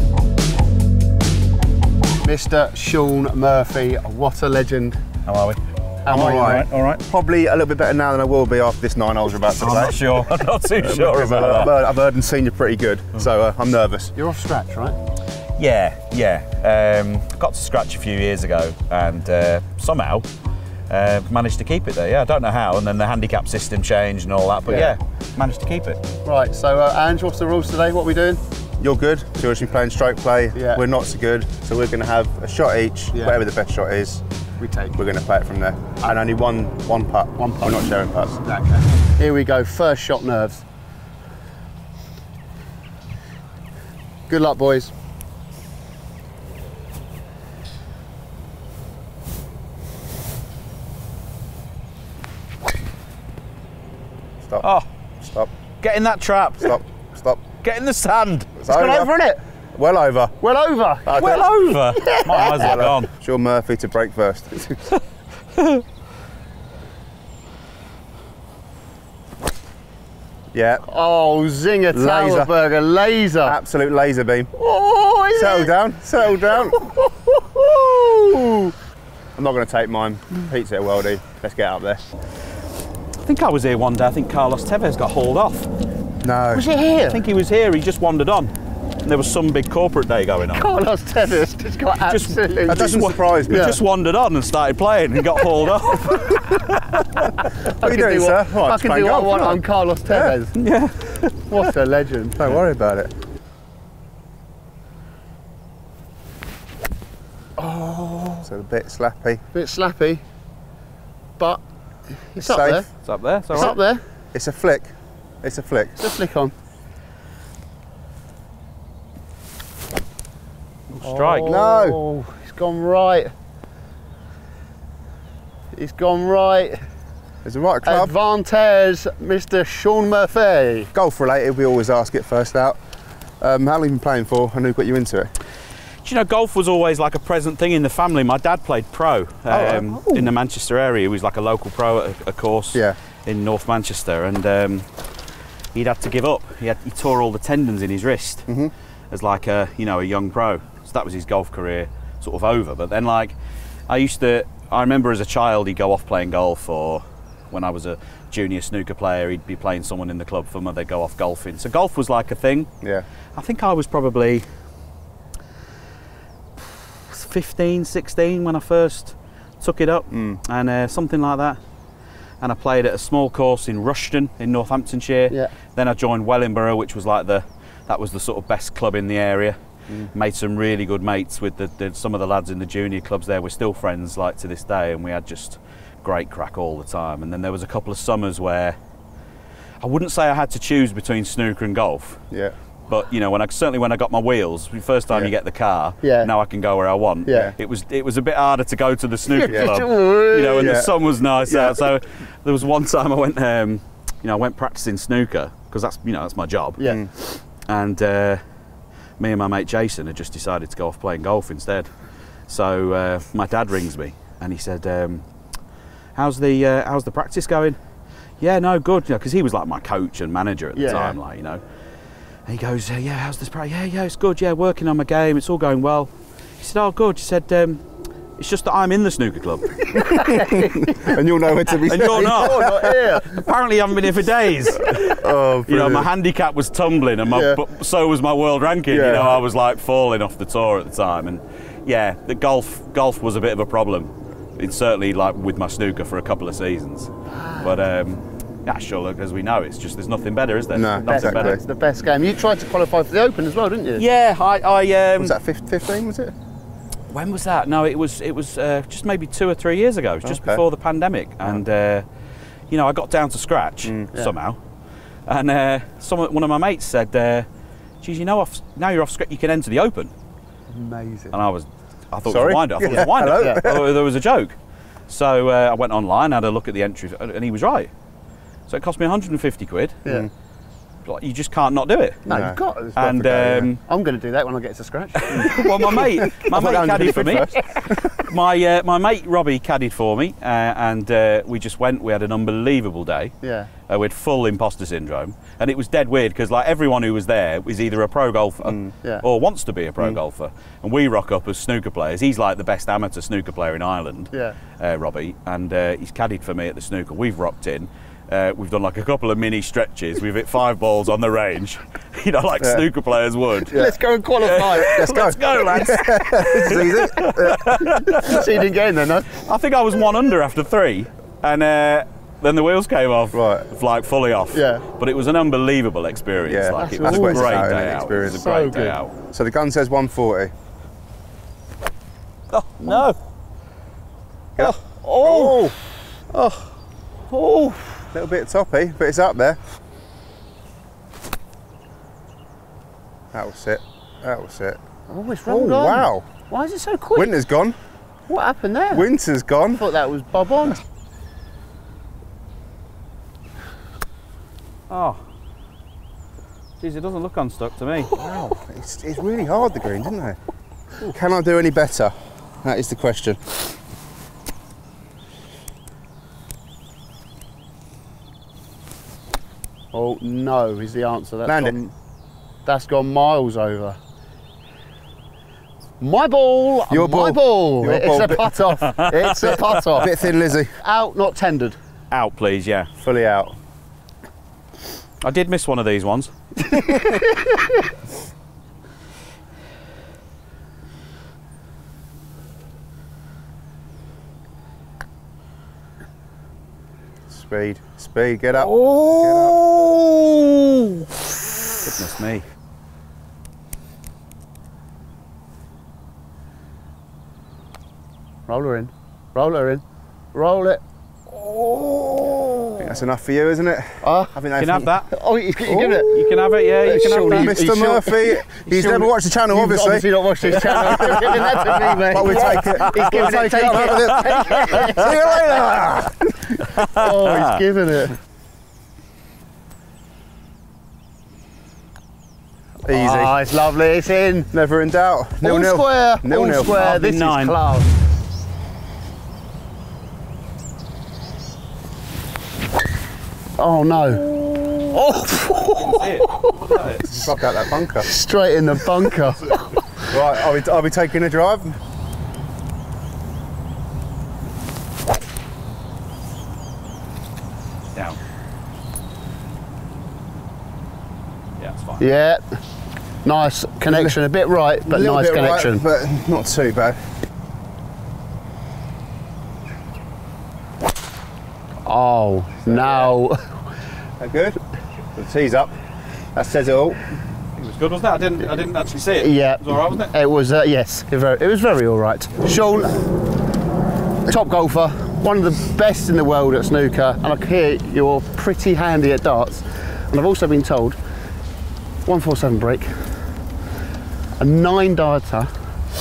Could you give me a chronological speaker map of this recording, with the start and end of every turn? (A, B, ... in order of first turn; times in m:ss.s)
0:02.2-0:05.0 A
0:05.2-0:07.0 B
0:06.0-0:06.6 A
0:06.1-0:10.1 C
0:09.6-0:11.7 B
0:10.8-0:14.1 C
0:14.2-0:15.0 A
0:15.6-0:20.3 B
0:20.9-0:26.0 B
0:24.7-0:24.9 A
0:26.2-0:28.4 A
0:28.8-0:34.2 C
0:30.6-0:30.8 A
0:34.6-0:35.0 A
0:35.0-0:38.8 C
0:37.4-0:37.8 A
0:39.2-0:40.6 A
0:44.3-0:44.9 A
0:54.6-0:54.9 B
0:55.2-0:55.5 C
0:55.8-0:56.8 B
0:56.6-0:57.4 C
0:57.6-0:58.5 B
0:58.6-0:59.1 C
0:58.7-0:59.4 A
0:59.7-1:00.3 C
1:00.4-1:02.8 A
1:01.1-1:01.5 C
1:01.1-1:03.1 B
1:02.6-1:04.8 C
1:05.6-1:05.8 B
1:10.5-1:10.8 C
1:10.9-1:13.6 A
1:11.9-1:12.5 C
1:13.4-1:14.5 C
1:14.6-1:15.7 A
1:15.3-1:16.8 C
1:16.7-1:18.7 A
1:19.4-1:22.0 C
1:23.2-1:25.7 B
1:26.2-1:26.6 C
1:26.5-1:27.2 A
1:27.1-1:28.5 B
1:29.0-1:30.7 B
1:30.5-1:33.8 A
1:32.1-1:37.3 B
1:32.7-1:33.8 C
1:37.3-1:40.5 A
1:37.8-1:40.3 C
1:40.6-1:41.2 B
1:41.5-1:42.4 A
1:42.3-1:43.1 C
1:47.6-1:48.5 A
1:48.5-1:49.4 C
1:49.5-1:50.2 A
1:51.4-1:52.9 A
1:52.4-1:52.8 C
1:53.0-1:53.8 B
1:53.5-1:54.0 A
1:54.3-1:56.0 C
1:56.0-1:56.5 A
2:00.9-2:01.5 B
2:01.0-2:03.3 A
2:01.4-2:02.0 C
2:05.7-2:06.8 A
2:07.4-2:08.1 C
2:07.8-2:10.9 A
2:10.9-2:12.8 C
2:13.4-2:15.3 C
2:16.0-2:24.9 B
2:19.5-2:20.3 C
2:25.8-2:28.5 B
2:28.5-2:28.7 C
2:29.1-2:33.3 B
2:33.9-2:42.7 B
2:43.3-2:44.5 B
2:47.1-2:51.6 B
2:50.1-2:50.4 C
2:52.4-2:59.6 B
3:00.1-3:08.8 B
3:09.8-3:12.2 B
3:12.9-3:28.4 B
3:16.0-3:16.3 A
3:17.2-3:17.5 A
3:19.3-3:20.8 A
3:19.5-3:19.8 C
3:20.6-3:20.9 C
3:21.4-3:21.8 C
3:26.8-3:27.0 A
3:26.8-3:27.1 C
3:29.2-3:31.9 B
3:32.5-3:35.2 B
3:36.2-3:37.8 B
3:38.4-3:41.6 B
3:40.8-3:41.1 A
3:40.9-3:41.2 C
3:42.5-3:47.8 B
3:48.4-3:49.9 B
3:49.9-3:51.2 A
3:50.2-3:52.9 C
3:51.9-4:11.6 B
3:52.0-3:53.4 A
3:54.9-3:56.1 C
3:57.3-3:57.6 A
3:58.9-3:59.4 C
4:07.3-4:07.7 A
4:10.7-4:11.6 C
4:11.0-4:14.0 A
4:14.0-4:15.4 B
4:15.2-4:16.3 C
4:17.1-4:22.0 B
4:20.2-4:20.6 C
4:22.7-4:24.6 B
4:23.8-4:24.1 C
4:25.3-4:27.5 B
4:28.0-4:30.1 B
4:30.7-4:31.3 A
4:31.3-4:34.6 B
4:32.3-4:33.9 C
4:32.9-4:33.6 A
4:35.1-4:37.9 B
4:38.7-4:40.0 B
4:41.0-4:42.3 B
4:42.2-4:43.0 A
4:42.3-4:43.7 C
4:43.0-4:43.8 B
4:43.8-4:46.0 A
4:45.2-4:47.5 B
4:45.3-4:48.1 C
4:48.1-4:53.3 B
4:53.4-4:53.7 A
4:53.9-5:13.8 B
4:58.6-4:58.9 C
5:04.3-5:04.6 A
5:13.7-5:15.0 A
5:13.7-5:14.0 C
5:14.4-5:18.5 B
5:14.7-5:18.4 C
5:18.2-5:19.3 A
5:19.4-5:29.1 B
5:23.3-5:23.7 C
5:24.5-5:24.8 A
5:26.5-5:28.5 C
5:26.7-5:27.8 A
5:28.3-5:29.0 A
5:29.3-5:30.5 C
5:32.5-5:33.2 B
5:34.6-5:35.8 C
5:35.0-5:35.6 A
5:36.3-5:36.6 B
5:37.3-5:37.8 A
5:38.1-5:39.6 C
5:43.3-5:44.8 C
5:45.1-5:47.3 A
5:45.5-5:46.3 C
5:47.1-5:47.8 C
5:48.3-5:49.1 A
5:48.9-5:49.8 C
5:49.8-5:50.8 A
5:54.9-5:55.2 B
5:56.8-5:58.1 B
5:58.1-6:00.4 C
5:58.2-5:58.5 A
6:01.0-6:03.4 C
6:09.9-6:11.9 A
6:11.4-6:11.8 C
6:12.6-6:14.0 A
6:16.0-6:20.1 A
6:16.9-6:18.5 C
6:18.8-6:19.7 B
6:20.0-6:20.7 C
6:20.8-6:21.8 A
6:22.1-6:22.9 B
6:23.0-6:23.6 C
6:25.2-6:26.3 B
6:26.7-6:27.2 A
6:37.3-6:39.6 C
6:38.6-6:41.2 A
6:41.8-6:42.4 B
6:48.5-6:49.8 A
6:50.3-6:50.8 A
6:51.3-6:52.8 A
6:52.8-6:54.9 C
6:54.0-6:54.3 A
6:54.6-6:55.1 B
6:55.1-7:05.8 A
6:55.7-6:56.1 C
6:55.8-6:57.6 B
6:57.0-7:06.2 C
7:00.7-7:05.2 B
7:06.5-7:08.2 A
7:06.6-7:07.6 B
7:12.9-7:13.4 C
7:12.9-7:14.5 A
7:14.5-7:17.0 C
7:15.4-7:17.9 A
7:16.7-7:17.6 B
7:23.6-7:24.3 A
7:24.9-7:26.8 A
7:25.8-7:27.0 B
7:27.0-7:28.1 C
7:28.0-7:29.8 A
7:30.1-7:31.8 C
7:41.6-7:42.0 B
7:42.0-7:42.5 A
7:43.2-7:45.8 A
7:43.9-7:44.1 C
7:44.9-7:47.0 C
7:51.8-7:53.5 A
7:52.7-7:53.1 C
7:54.2-7:54.6 C
7:55.1-7:55.7 C
7:56.3-7:57.0 C
7:57.6-8:00.1 B
7:59.1-8:03.0 A
8:04.3-8:11.0 A
8:12.0-8:13.0 A
8:14.4-8:15.5 A